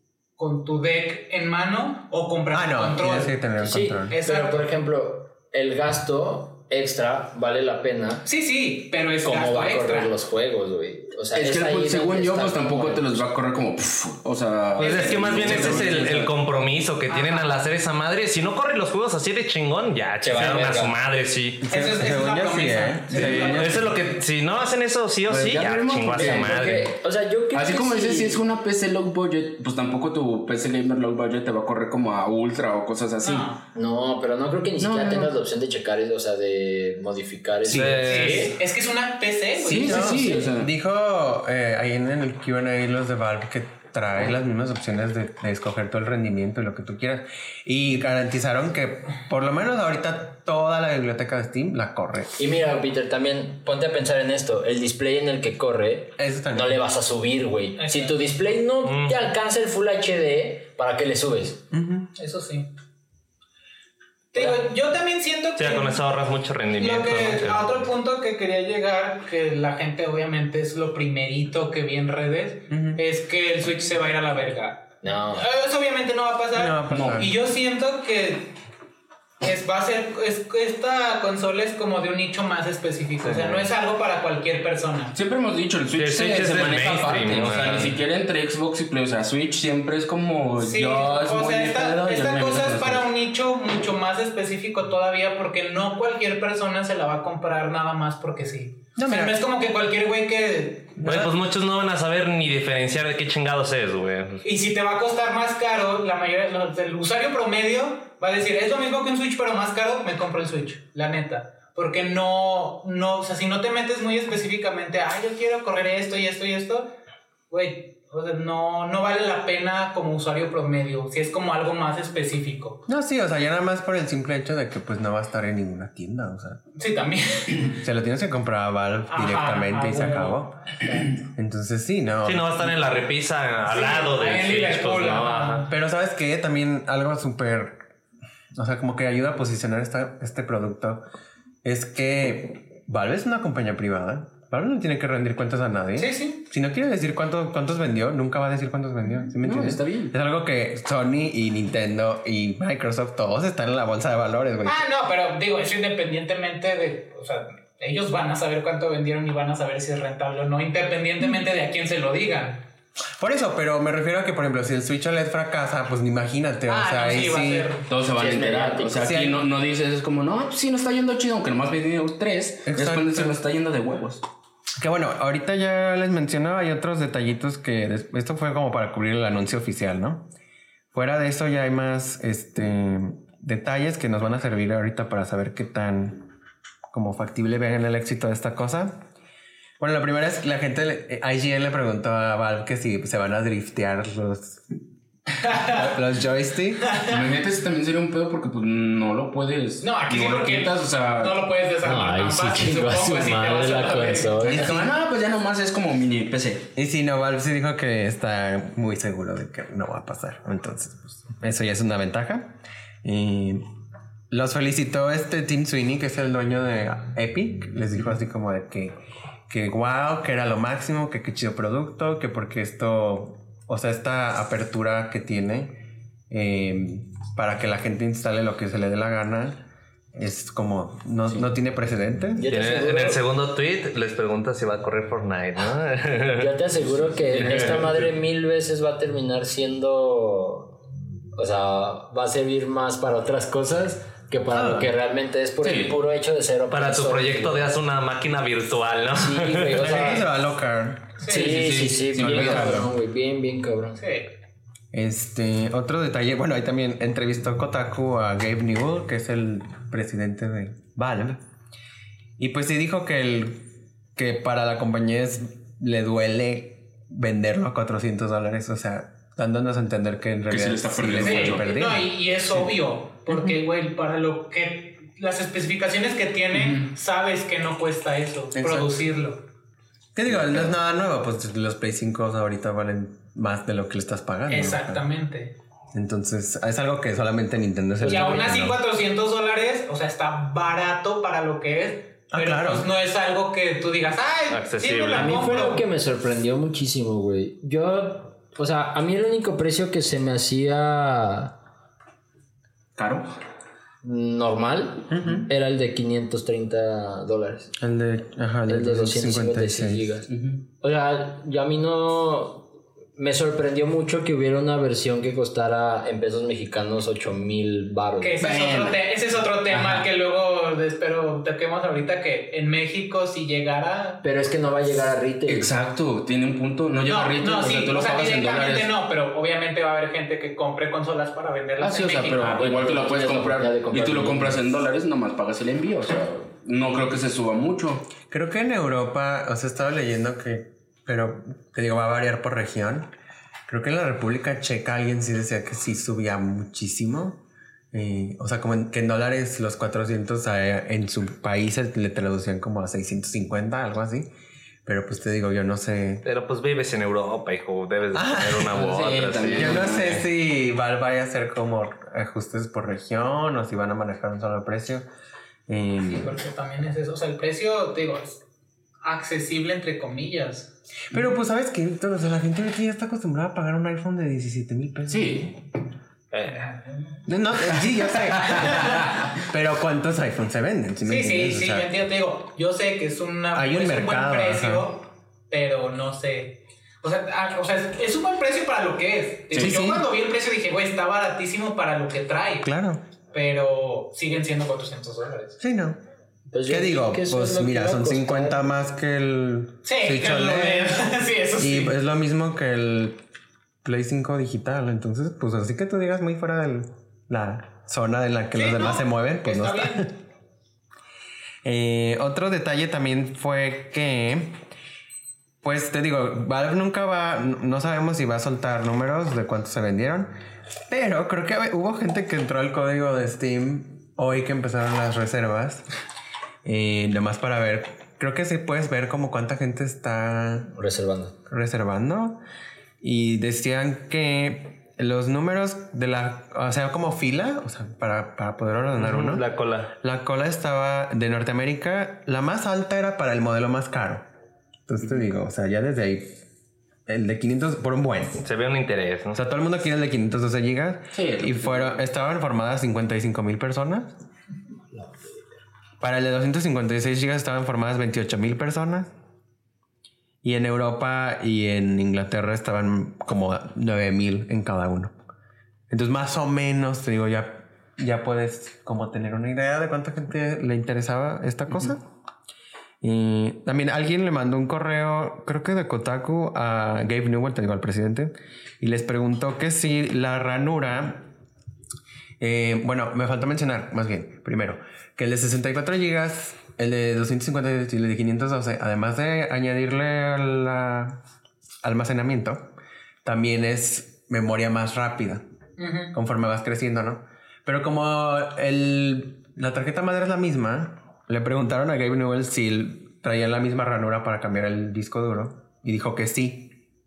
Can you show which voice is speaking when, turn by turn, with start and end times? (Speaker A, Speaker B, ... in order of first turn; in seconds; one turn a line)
Speaker A: 0.4-3.4
Speaker B: 2.5-4.2
Speaker C: 3.6-8.2
Speaker A: 4.1-4.7
Speaker A: 8.2-10.1
Speaker C: 9.2-13.2
Speaker D: 11.3-16.3
Speaker A: 14.8-16.1
Speaker E: 14.8-21.6
Speaker A: 17.1-17.5
Speaker C: 20.2-20.9
Speaker B: 21.6-24.0
Speaker A: 21.7-23.8
Speaker E: 23.1-26.9
Speaker D: 25.3-26.8
Speaker C: 26.1-28.4
Speaker D: 27.5-33.5
Speaker A: 33.2-33.6
Speaker C: 33.7-38.5
Speaker D: 34.8-35.3
Speaker E: 37.6-38.5
Speaker A: 38.0-40.3
Speaker D: 39.6-40.7
Speaker B: 39.7-52.4
Speaker C: 39.8-40.5
Speaker C: 52.4-61.6
Speaker B: 56.2-56.8
Speaker A: 57.8-58.2
Speaker E: 58.8-59.2
Speaker B: 61.7-62.1
Speaker A: 62.1-62.7
Speaker A: 64.3-66.0
Speaker C: 64.3-64.6
Speaker E: 65.6-67.8
Speaker A: 66.8-78.5
Speaker B: 72.7-73.0
Speaker C: 75.0-75.4
Speaker B: 76.5-77.3
Speaker D: 76.9-77.3
Speaker A: 79.4-85.2
Speaker D: 85.1-93.1
Speaker E: 86.0-88.0
Speaker A: 90.6-101.0
Speaker B: 99.0-99.4
Speaker B: 101.0-101.3
Speaker E: 101.0-104.4
Speaker A: 104.4-116.9
Speaker A: 117.5-122.8
Speaker B: 122.9-126.6
Speaker A: 126.7-127.8
Speaker B: 127.7-132.8
Speaker A: 129.1-130.9
Speaker E: 132.2-135.6
Speaker A: 133.7-135.7
Speaker B: 135.7-137.8
Speaker B: 138.5-141.0
Speaker B: 141.6-154.8
Speaker A: 145.9-146.4
Speaker D: 149.4-150.1
Speaker A: 154.6-162.6
Speaker B: 163.2-167.7
Speaker A: 166.7-167.8
Speaker D: 167.9-174.2
Speaker C: 168.1-169.2
Speaker B: 169.0-169.4
Speaker B: 172.7-173.4
Speaker B: 174.8-180.3
Speaker B: 180.9-186.3
Speaker B: 186.9-189.0
Speaker B: 189.8-194.8
Speaker A: 195.4-195.9
Speaker B: 195.5-196.9
Speaker A: 196.8-197.2
Speaker D: 197.0-201.4
Speaker A: 199.8-204.5
Speaker C: 201.8-204.9
Speaker D: 204.4-206.7
Speaker B: 206.7-213.6
Speaker B: 214.3-218.9
Speaker B: 219.5-225.8
Speaker B: 226.3-229.6
Speaker B: 230.1-232.5
Speaker C: 232.3-233.2
Speaker E: 232.5-236.5
Speaker C: 236.4-240.8
Speaker D: 236.8-238.1
Speaker E: 237.4-237.8
Speaker C: 241.3-247.7
Speaker B: 244.5-244.9
Speaker D: 245.6-246.0
Speaker E: 246.7-250.1
Speaker C: 249.1-250.3
Speaker B: 249.8-251.2
Speaker A: 251.2-251.6
Speaker C: 251.2-254.0
Speaker D: 251.3-252.9
Speaker A: 254.0-254.3
Speaker B: 254.9-261.4
Speaker B: 262.4-272.7
Speaker D: 270.5-271.7
Speaker A: 271.2-279.4
Speaker D: 276.5-276.9
Speaker B: 278.5-279.0
Speaker B: 280.1-285.0
Speaker D: 280.3-280.7
Speaker A: 284.5-285.5
Speaker B: 285.9-288.8
Speaker C: 288.0-288.6
Speaker A: 288.0-295.8
Speaker B: 292.3-292.9
Speaker E: 294.5-295.5
Speaker C: 295.1-301.5
Speaker D: 302.9-303.3
Speaker C: 304.0-307.7
Speaker B: 305.1-305.5
Speaker B: 307.8-310.1
Speaker C: 308.7-318.8
Speaker D: 310.3-310.6
Speaker A: 318.2-324.2
Speaker D: 318.4-318.9
Speaker D: 319.7-320.0
Speaker C: 324.2-325.7
Speaker D: 325.5-328.9
Speaker A: 327.0-332.6
Speaker D: 331.8-338.1
Speaker C: 332.4-334.6
Speaker B: 338.2-343.1
Speaker B: 343.7-347.4
Speaker B: 347.9-354.3
Speaker B: 354.9-356.2
Speaker E: 356.2-360.0
Speaker B: 358.1-358.9
Speaker D: 358.7-360.2
Speaker B: 359.6-365.1
Speaker B: 365.7-366.4
Speaker A: 366.0-368.4
Speaker A: 369.0-370.7
Speaker B: 371.1-375.5
Speaker D: 375.1-375.5
Speaker E: 376.3-376.7
Speaker A: 376.4-377.2
Speaker B: 377.3-381.9
Speaker D: 378.3-378.6
Speaker A: 378.4-379.1
Speaker A: 381.0-392.7
Speaker B: 383.5-384.9
Speaker D: 389.5-389.8
Speaker B: 389.5-390.1
Speaker B: 392.6-393.0
Speaker A: 393.3-395.6
Speaker B: 395.6-396.0
Speaker C: 396.5-398.6
Speaker B: 396.6-401.0
Speaker A: 399.9-401.9
Speaker B: 401.6-403.2
Speaker B: 403.8-410.1
Speaker A: 408.5-410.1
Speaker B: 411.6-414.6
Speaker B: 415.6-420.4
Speaker B: 420.9-425.9
Speaker B: 426.6-430.7
Speaker C: 430.7-431.4
Speaker B: 431.5-432.4
Speaker B: 433.0-444.2
Speaker E: 438.9-439.9
Speaker B: 444.9-446.4
Speaker B: 447.1-448.4
Speaker E: 448.4-449.4
Speaker B: 449.3-454.1
Speaker D: 451.1-452.0
Speaker C: 454.9-455.4
Speaker B: 456.0-459.1
Speaker B: 460.4-465.1
Speaker B: 465.9-472.0
Speaker B: 473.0-481.3
Speaker B: 482.4-491.2
Speaker B: 491.8-492.7
Speaker B: 493.2-495.4
Speaker A: 495.8-496.1
Speaker B: 496.1-506.7